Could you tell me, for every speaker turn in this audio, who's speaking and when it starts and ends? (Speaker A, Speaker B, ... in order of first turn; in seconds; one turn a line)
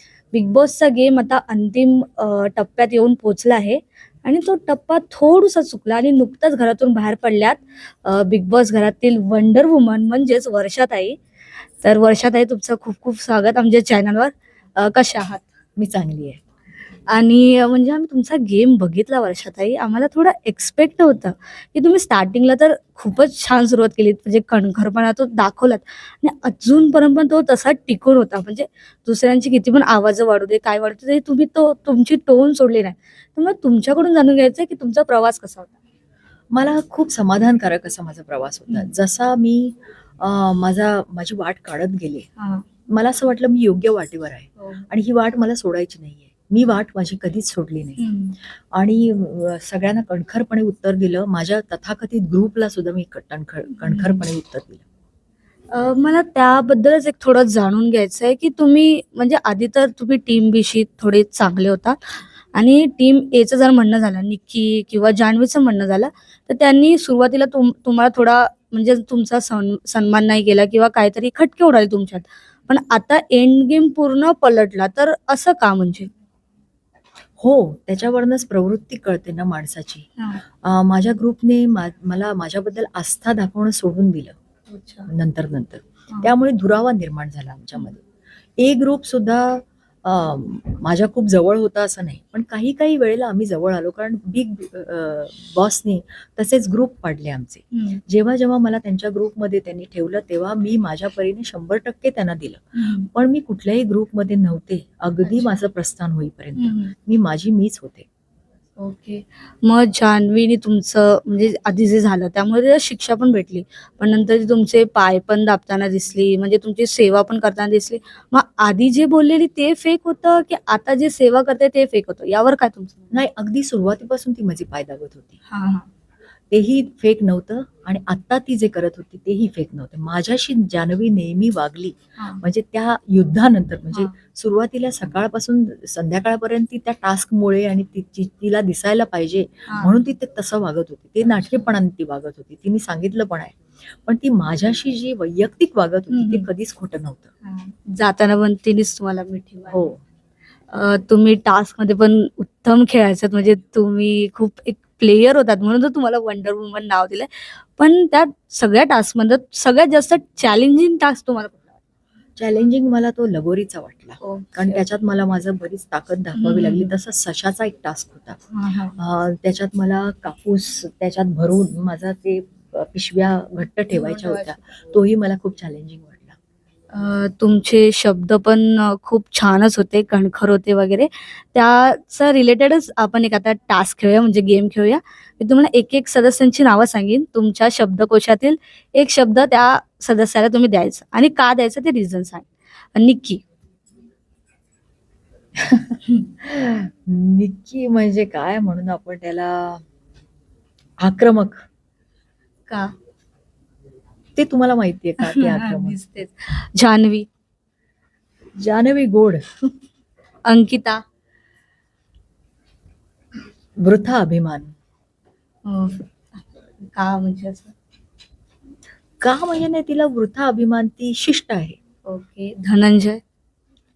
Speaker A: 0.3-11.2
Speaker A: 11.8-15.4
Speaker B: 15.8-16.4
Speaker A: 17.1-35.8
Speaker B: 36.5-42.3
Speaker A: 42.4-42.6
Speaker B: 42.9-48.0
Speaker A: 44.6-44.9
Speaker A: 48.0-48.4
Speaker B: 48.7-54.8
Speaker A: 53.7-54.2
Speaker A: 55.7-76.1
Speaker B: 77.4-80.1
Speaker B: 80.6-84.4
Speaker A: 84.7-85.1
Speaker B: 85.1-88.0
Speaker B: 88.6-108.1
Speaker A: 97.7-98.0
Speaker A: 102.8-103.1
Speaker A: 105.2-105.5
Speaker A: 106.6-106.9
Speaker A: 108.8-123.1
Speaker B: 123.1-125.4
Speaker A: 125.5-125.9
Speaker B: 126.5-147.3
Speaker A: 139.7-139.9
Speaker A: 141.4-141.7
Speaker A: 146.1-146.5
Speaker A: 147.4-149.8
Speaker B: 149.7-150.0
Speaker A: 150.7-161.8
Speaker B: 162.4-168.4
Speaker A: 164.2-164.8
Speaker A: 166.3-166.9
Speaker A: 168.5-169.0
Speaker B: 169.0-176.4
Speaker A: 173.9-174.5
Speaker A: 176.9-193.4
Speaker B: 195.6-199.8
Speaker B: 201.0-201.6
Speaker A: 202.7-202.9
Speaker B: 204.4-206.0
Speaker A: 205.2-207.3
Speaker B: 208.6-209.4
Speaker A: 210.5-211.0
Speaker B: 213.8-214.7
Speaker A: 215.7-217.8
Speaker B: 219.2-221.8
Speaker A: 222.1-223.2